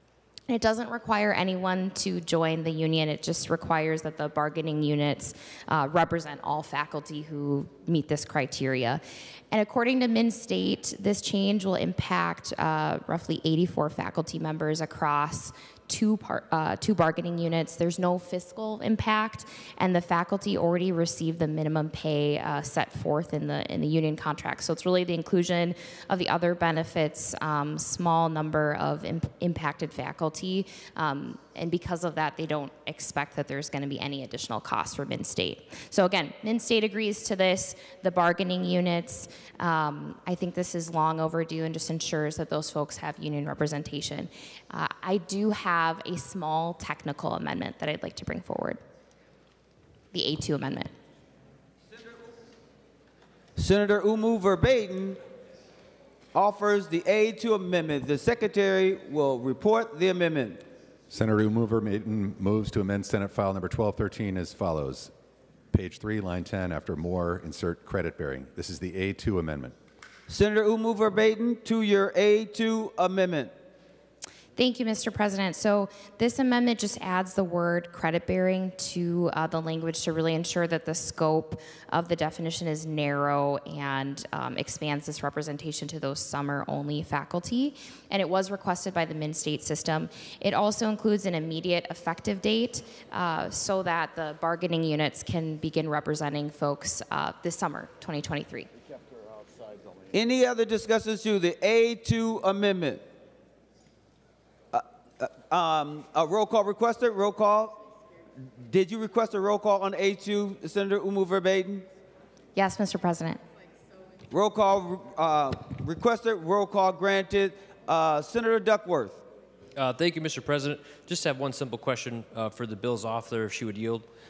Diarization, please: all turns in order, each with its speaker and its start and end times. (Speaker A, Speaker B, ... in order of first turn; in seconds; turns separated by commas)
Speaker A: 0.5-48.8, Speaker A: 50.1-50.9, Speaker B: 53.6-55.2, Speaker B: 56.3-60.6, Speaker C: 61.1-65.1, Speaker C: 65.7-69.7, Speaker B: 70.3-73.5, Speaker A: 74.5-98.7, Speaker B: 100.1-103.0, Speaker B: 104.7-107.8, Speaker B: 108.5-111.9, Speaker A: 112.5-113.4, Speaker B: 114.3-119.2, Speaker D: 119.8-124.0